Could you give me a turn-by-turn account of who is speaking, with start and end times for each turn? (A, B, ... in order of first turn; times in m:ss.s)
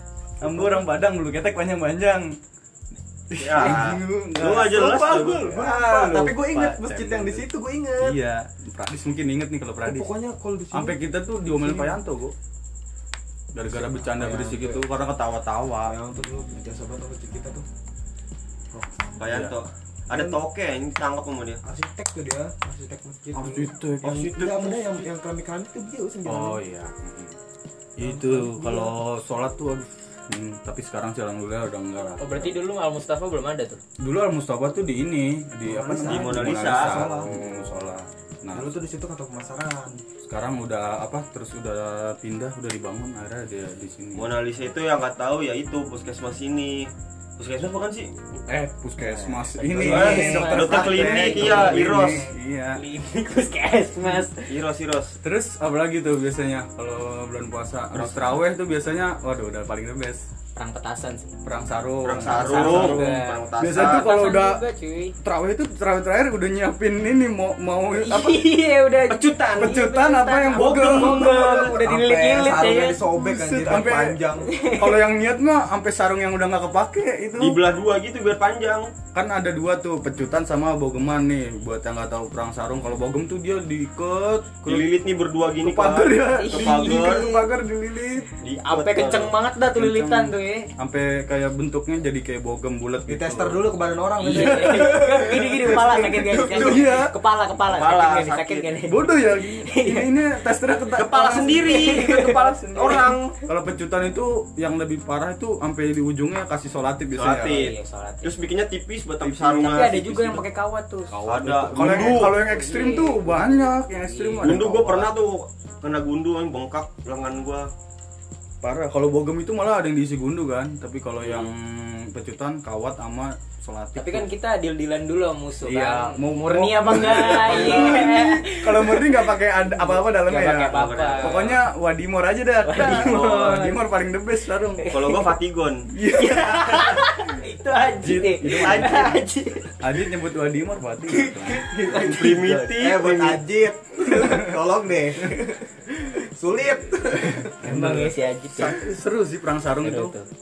0:00.4-0:02.4 A
0:00.4-0:00.8 B
0:03.3-0:10.1 A
0:03.4-0:05.5 C
0:03.6-0:04.0 B
0:05.3-0:08.2 B
0:09.8-0:12.0 B
0:10.7-0:12.3 A
0:13.5-0:15.9 A
0:13.7-0:14.8 B
0:15.8-0:17.6 B
0:18.7-0:19.3 B
0:19.2-0:21.6 C
0:19.3-0:19.6 A
0:20.1-0:20.4 B
0:21.6-0:26.6 B
0:23.3-0:24.7 A
0:24.0-0:24.8 C
0:26.2-0:27.4 A
0:28.0-0:32.5 A
0:28.0-0:28.9 B
0:32.2-0:33.8 D
0:34.0-0:38.7 A
0:35.6-0:37.9 B
0:36.1-0:37.2 C
0:38.5-0:40.0 B
0:40.2-0:44.3 A
0:44.1-0:48.1 C
0:48.5-0:52.8 A
0:49.0-0:52.3 B
0:49.8-0:52.2 C
0:49.8-0:52.0 D
0:52.7-0:54.5 D
0:54.4-0:55.2 C
0:55.2-1:00.3 A
1:00.5-1:01.3 D
1:01.4-1:04.6 A
1:02.0-1:04.1 C
1:02.2-1:05.1 D
1:05.2-1:08.4 A
1:08.0-1:13.0 D
1:09.1-1:09.8 C
1:09.6-1:12.3 A
1:10.5-1:11.8 C
1:11.5-1:14.5 B
1:13.1-1:17.6 A
1:14.4-1:15.0 D
1:17.4-1:18.9 C
1:19.1-1:24.9 A
1:24.6-1:27.3 C
1:25.6-1:28.3 A
1:26.2-1:27.5 D
1:28.4-1:29.3 C
1:28.6-1:30.7 D
1:29.6-1:33.6 A
1:33.1-1:36.9 B
1:34.2-1:40.1 D
1:34.3-1:35.1 A
1:36.3-1:37.1 A
1:37.6-1:38.7 C
1:38.8-1:47.7 A
1:41.0-1:43.4 C
1:41.0-1:43.1 D
1:47.1-1:50.0 C
1:47.4-1:48.3 D
1:49.2-1:50.4 A
1:49.6-1:51.2 D
1:51.1-1:55.1 A
1:51.2-1:52.4 C
1:51.8-1:54.6 D
1:54.4-1:57.7 C
1:58.6-2:04.3 A
2:01.2-2:01.5 C
2:04.0-2:11.5 D
2:05.6-2:14.9 A
2:07.1-2:08.1 C
2:10.7-2:11.6 C
2:12.6-2:13.8 D
2:12.8-2:13.6 C
2:14.8-2:15.3 D
2:14.8-2:15.9 C
2:15.9-2:17.2 A
2:16.0-2:19.8 D
2:18.0-2:19.2 A
2:18.5-2:19.2 C
2:19.8-2:21.7 A
2:21.1-2:22.5 D
2:21.8-2:23.4 C
2:22.3-2:27.7 B
2:27.4-2:30.1 A
2:27.6-2:28.8 D
2:29.8-2:30.2 D